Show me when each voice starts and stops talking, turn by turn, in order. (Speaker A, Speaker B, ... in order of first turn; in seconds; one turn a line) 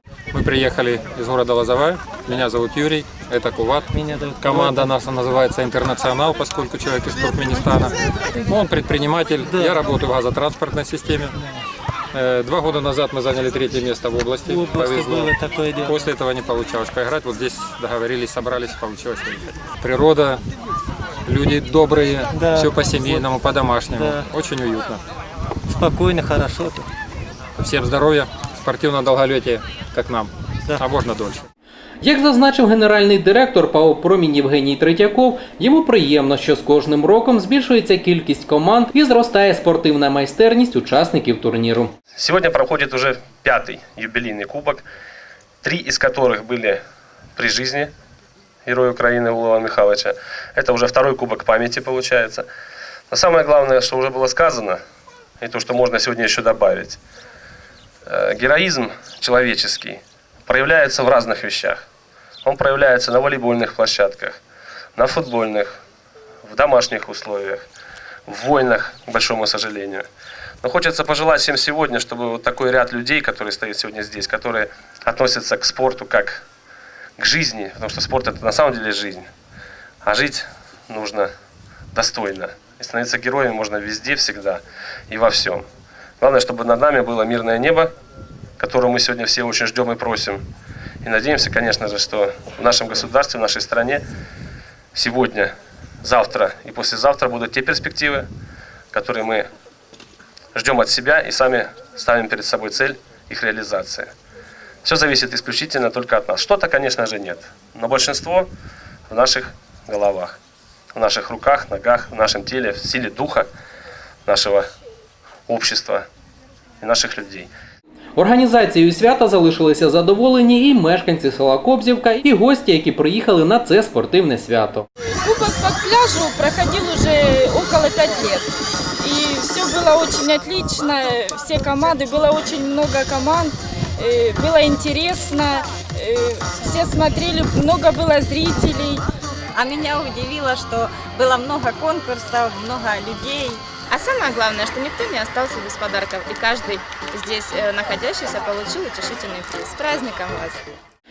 Speaker A: 0.3-11.3
Speaker B: 3.9-4.9
Speaker B: 9.5-9.8
Speaker A: 12.1-20.4
Speaker B: 14.5-16.1
Speaker A: 21.2-25.0
Speaker B: 22.3-23.3
Speaker B: 23.9-24.2
Speaker B: 25.7-26.9
Speaker A: 27.6-31.4
Speaker C: 32.0-41.9
Speaker D: 42.1-44.8
Speaker D: 45.6-46.8
Speaker D: 47.4-47.9
Speaker D: 48.6-52.5
Speaker D: 53.1-54.8
Speaker D: 55.4-57.0
Speaker D: 58.0-61.8
Speaker D: 62.4-64.4
Speaker D: 65.0-65.8
Speaker D: 66.4-67.6
Speaker D: 68.3-70.0
Speaker D: 70.6-76.4
Speaker D: 77.2-79.3
Speaker D: 80.0-81.3
Speaker D: 81.9-85.6
Speaker D: 86.2-87.9
Speaker D: 88.6-90.4
Speaker D: 91.0-94.0
Speaker D: 94.9-95.5
Speaker D: 96.0-98.3
Speaker D: 98.9-99.5
Speaker D: 100.5-104.1
Speaker D: 104.8-108.5
Speaker D: 109.1-110.4
Speaker D: 110.9-113.5
Speaker D: 114.2-114.6
Speaker D: 115.5-116.0
Speaker D: 116.8-117.5
Speaker C: 118.2-124.8
Speaker E: 125.2-128.4
Speaker E: 129.0-139.0
Speaker F: 139.6-143.6
Speaker G: 139.6-140.6
Speaker G: 141.4-150.6
Speaker F: 147.3-148.9
Speaker F: 149.5-150.0